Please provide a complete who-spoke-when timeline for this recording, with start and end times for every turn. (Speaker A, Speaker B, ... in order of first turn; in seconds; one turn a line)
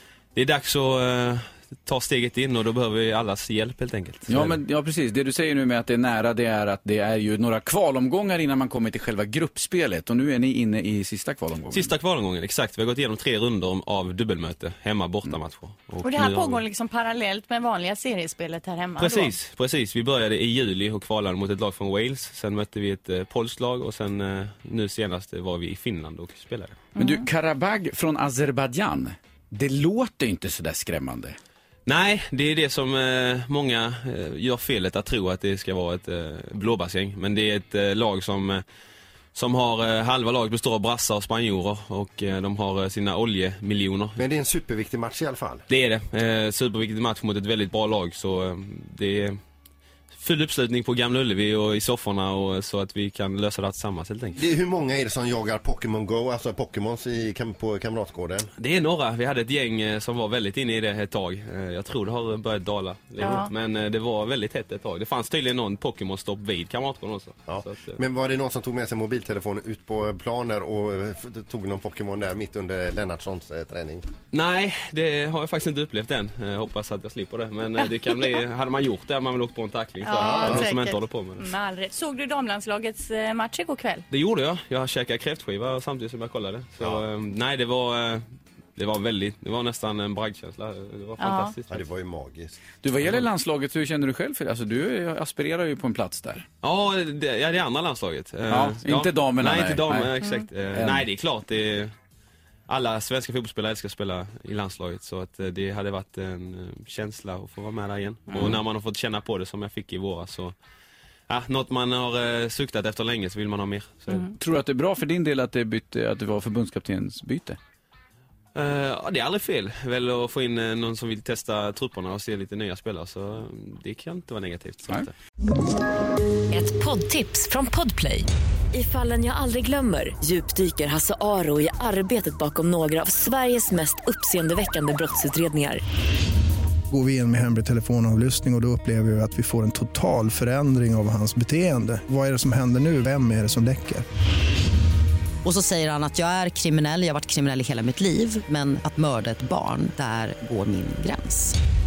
Speaker A: 0.3-4.5
Speaker B: 4.3-11.9
Speaker A: 11.7-16.6
Speaker C: 16.0-19.4
Speaker A: 19.0-26.8
Speaker B: 27.0-31.4
Speaker C: 27.0-27.3
Speaker A: 31.9-38.6
Speaker A: 39.4-44.2
Speaker D: 44.2-45.6
Speaker A: 45.7-49.4
Speaker A: 50.1-54.4
Speaker D: 54.4-58.5
Speaker A: 58.6-68.0
Speaker C: 63.2-63.5
Speaker D: 67.5-74.0
Speaker A: 74.3-81.5
Speaker C: 80.0-84.0
Speaker D: 80.1-80.7
Speaker A: 84.1-88.2
Speaker D: 86.8-87.0
Speaker A: 88.8-91.8
Speaker C: 91.2-91.5
Speaker D: 91.7-92.6
Speaker B: 92.8-96.4
Speaker A: 96.6-101.9
Speaker B: 98.5-100.1
Speaker B: 100.8-101.0
Speaker A: 102.7-110.5
Speaker A: 111.3-114.3
Speaker B: 114.4-117.6
Speaker A: 118.5-125.1
Speaker E: 126.5-135.8
Speaker F: 136.9-144.1
Speaker G: 145.4-151.6